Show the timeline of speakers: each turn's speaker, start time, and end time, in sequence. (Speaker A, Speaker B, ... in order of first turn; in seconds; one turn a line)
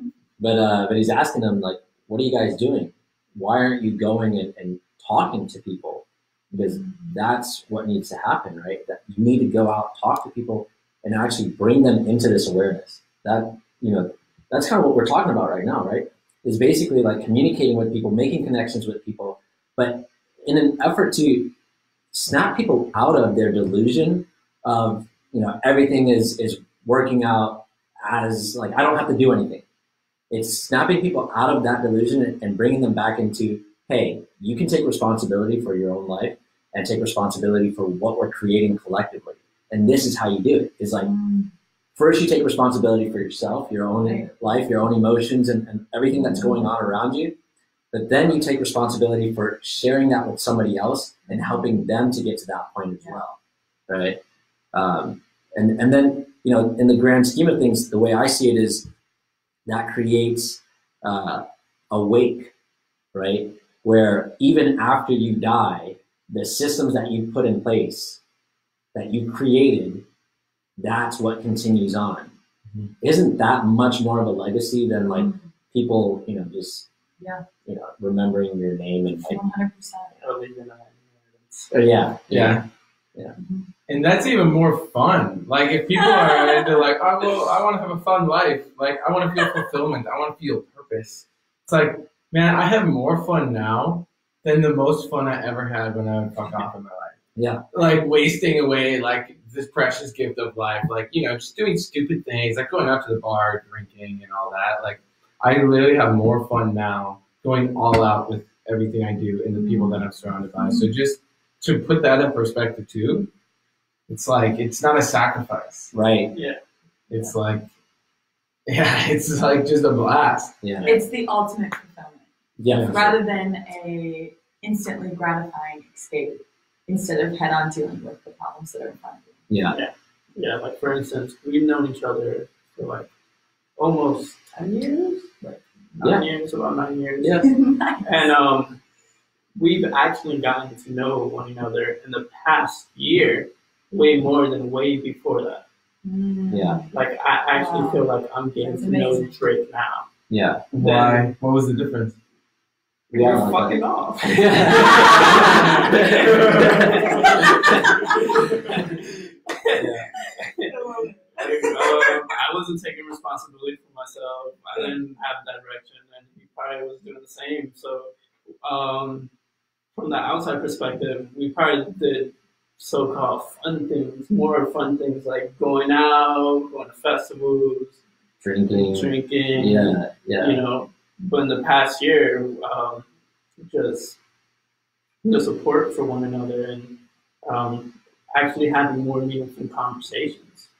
Speaker A: 0.4-21.5
Speaker B: 6.6-7.1
Speaker A: 22.1-29.6
Speaker A: 30.3-41.1
Speaker B: 41.0-41.5
Speaker A: 42.0-47.4
Speaker B: 44.0-44.3
Speaker B: 46.1-46.7
Speaker A: 47.9-54.2
Speaker B: 51.3-51.6
Speaker A: 54.7-58.9
Speaker A: 59.6-62.5
Speaker A: 63.1-68.2
Speaker A: 68.9-70.0
Speaker A: 70.8-72.3
Speaker A: 73.0-76.9
Speaker B: 75.1-75.5
Speaker B: 77.2-77.4
Speaker A: 77.6-79.4
Speaker B: 79.2-80.2
Speaker C: 80.2-81.7
Speaker A: 81.7-82.6
Speaker D: 82.3-82.6
Speaker B: 83.4-83.7
Speaker D: 83.9-97.2
Speaker B: 85.9-86.8
Speaker A: 97.3-97.6
Speaker D: 97.7-113.3
Speaker B: 109.5-110.0
Speaker B: 110.6-110.9
Speaker D: 114.1-115.9
Speaker A: 115.9-116.3
Speaker C: 116.3-116.6
Speaker D: 117.1-117.6
Speaker D: 118.7-120.5
Speaker A: 120.6-120.9
Speaker B: 120.8-122.3
Speaker A: 122.6-123.2
Speaker D: 122.7-123.0
Speaker B: 122.9-129.4
Speaker A: 129.5-129.8
Speaker C: 129.7-133.1
Speaker C: 133.8-137.5
Speaker A: 136.0-136.3
Speaker A: 137.2-137.5
Speaker B: 137.4-138.3
Speaker C: 138.0-138.8
Speaker C: 139.6-145.6
Speaker B: 146.0-146.9
Speaker A: 146.5-146.8
Speaker C: 146.9-150.1
Speaker B: 147.5-148.1
Speaker B: 148.6-149.4
Speaker A: 150.3-150.6
Speaker D: 150.7-152.2
Speaker C: 150.8-151.3
Speaker A: 153.1-158.2
Speaker C: 153.1-160.8
Speaker D: 154.9-155.7
Speaker D: 156.2-156.8
Speaker B: 157.2-158.1
Speaker D: 159.8-160.0
Speaker B: 160.4-162.1
Speaker C: 161.4-168.1
Speaker C: 168.6-169.3
Speaker C: 169.9-178.0
Speaker A: 178.4-180.6
Speaker C: 178.7-183.1
Speaker C: 183.6-184.2
Speaker C: 185.2-190.7